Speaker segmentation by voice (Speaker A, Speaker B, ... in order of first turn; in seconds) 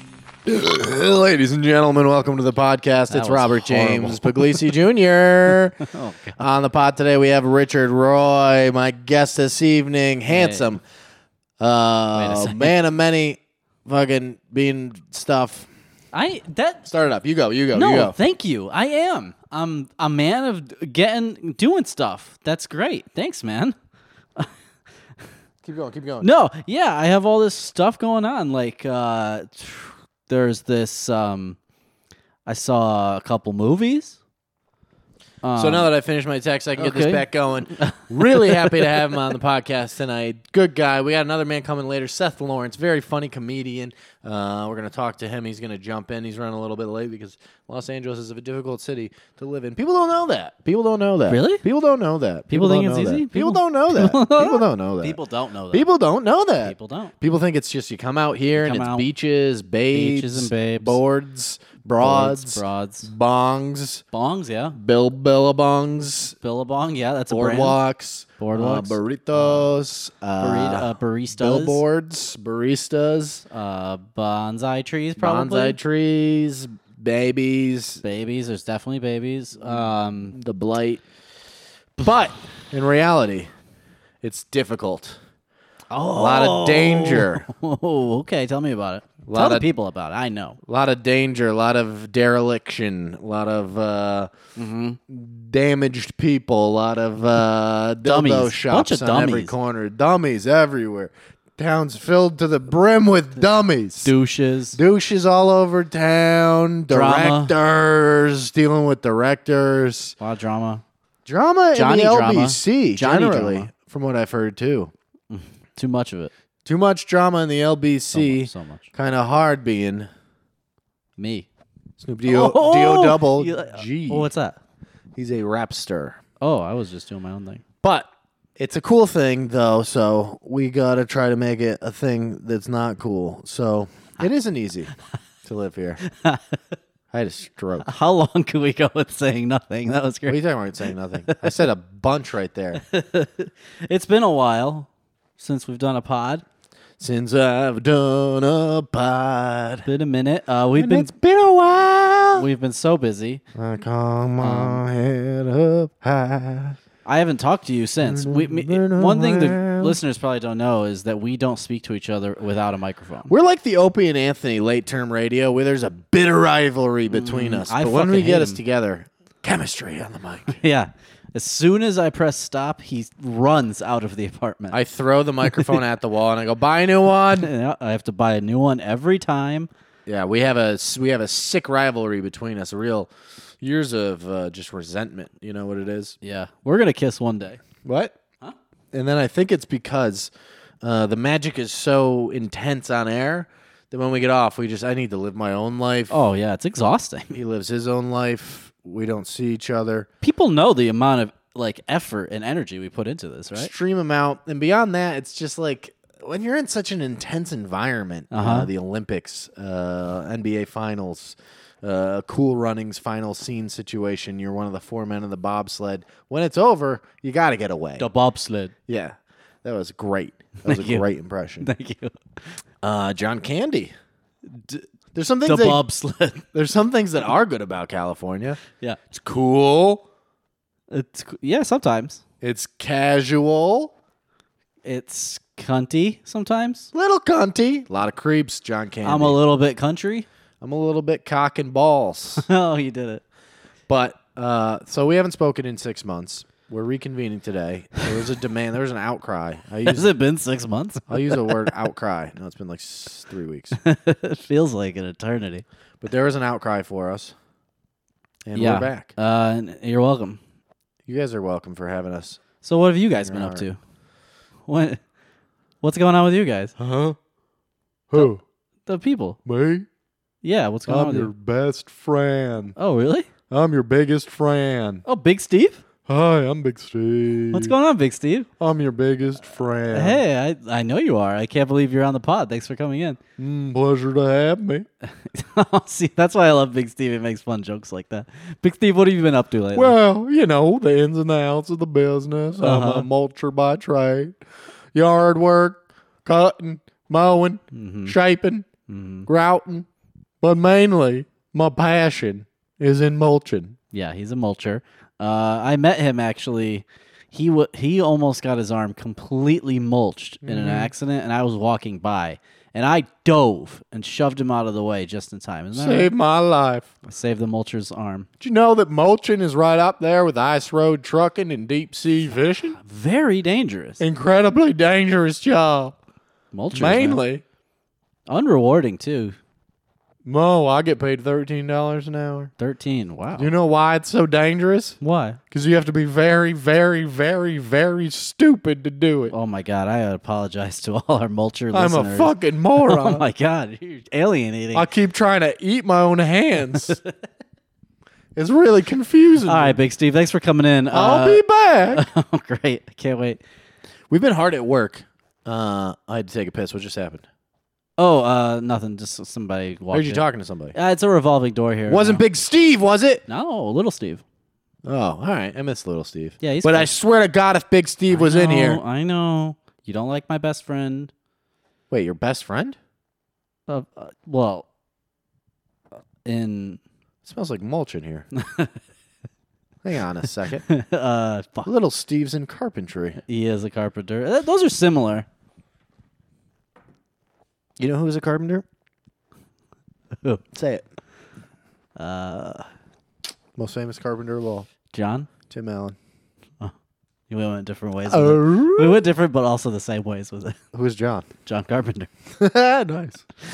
Speaker A: 0.5-5.8, 6.4-10.8, 11.6-15.7, 16.9-18.1, 25.6-26.3, 35.6-55.2, 55.7-64.0, 64.7-66.3, 67.3-73.5, 75.2-78.0, 79.6-81.0, 82.0-83.5, 84.2-85.2, 86.1-87.5, 89.3-89.7, 90.6-94.3, 95.1-104.1, 104.7-110.2, 111.2-114.9, 116.7-120.1, 122.0-124.3, 125.2-126.2, 127.8-134.9, 135.4-136.0, 137.1-137.9, 140.3-142.8, 147.0-149.9, 150.8-152.5, 153.6-156.8, 158.0-160.0, 163.3-170.6, 174.7-177.5, 180.1-186.2, 187.8-188.2, 188.9-190.3, 190.8-196.2, 197.3-200.1, 203.5-218.1, 218.9-221.7, 222.8-223.9, 225.1-225.8, 226.5-228.6, 229.1-230.1, 232.4-233.9, 236.9-239.4, 240.6-242.5, 243.9-250.1, 251.1-253.8, 256.0-257.4, 258.4-259.1, 261.1-262.4, 263.2-263.7, 266.8-267.2, 268.1-268.4, 269.5-269.9, 270.9-272.8, 273.5-275.0, 276.1-277.8, 278.6-280.2, 283.4-284.9, 289.7-294.4, 294.9-298.7, 299.3-299.9, 300.4-303.8, 310.4-310.9, 315.8-316.9, 318.4-322.8, 324.0-326.0, 326.7-327.4, 330.2-332.5, 333.4-335.0, 335.5-339.3, 341.7-343.2, 344.7-347.0, 348.4-349.8, 350.9-352.1, 354.1-357.2, 359.9-360.8, 361.9-363.2, 364.8-368.8, 371.9-372.8, 377.2-378.3, 379.8-380.6, 381.7-383.2, 387.8-388.6, 390.6-390.8, 393.6-394.7, 395.5-396.0, 398.1-399.0, 400.7-401.3, 402.4-403.3
Speaker B: 3.1-4.7, 5.8-6.4, 10.3-10.7, 12.2-12.7, 16.1-16.9, 17.7-23.8, 26.2-31.6, 32.5-34.2, 35.4-35.9, 36.8-38.9, 51.3-51.6, 52.5-55.9, 56.6-57.1, 58.6-59.1, 59.9-61.0, 62.0-63.1, 64.1-64.8, 66.4-67.8, 68.4-69.7, 70.4-71.8, 73.5-75.8, 78.0-80.4, 85.9-90.6, 94.6-95.0, 98.0-99.5, 104.0-104.8, 106.9-107.5, 110.2-110.8, 111.7-113.7, 115.3-116.3, 118.1-118.9, 121.2-121.5, 122.3-124.6, 126.4-127.6, 136.1-136.6, 137.8-140.4, 141.3-141.6, 142.8-146.4, 149.8-151.1, 152.3-153.4, 154.4-154.8, 157.1-163.3, 167.1-168.6, 170.5-174.8, 177.4-179.7, 186.2-187.6, 196.1-197.4, 200.2-203.7, 208.3-208.7, 218.0-218.7, 220.7-221.1, 221.6-222.6, 224.5-224.9, 225.4-226.5, 230.9-232.2, 234.8-236.9, 239.0-240.3, 242.4-243.2, 249.9-251.6, 253.8-255.6, 258.6-260.4, 262.6-263.8, 264.7-265.0, 265.8-266.8, 268.9-269.4, 270.4-271.3, 272.8-273.3, 275.1-275.8, 277.5-278.5, 279.9-283.2, 285.2-289.9, 292.6-293.1, 297.7-298.2, 298.9-299.3, 303.9-316.1, 317.1-318.3, 322.8-324.0, 326.5-327.2, 328.3-329.4, 332.6-333.5, 335.0-335.4, 339.3-344.9, 349.5-353.4, 358.0-360.2, 360.7-362.2, 363.3-364.2, 366.4-366.9, 368.1-371.1, 373.7-374.7, 376.2-376.8, 378.4-378.8, 380.7-381.7, 383.3-385.3, 392.0-392.7, 394.9-395.3, 397.3-400.6, 401.4-402.1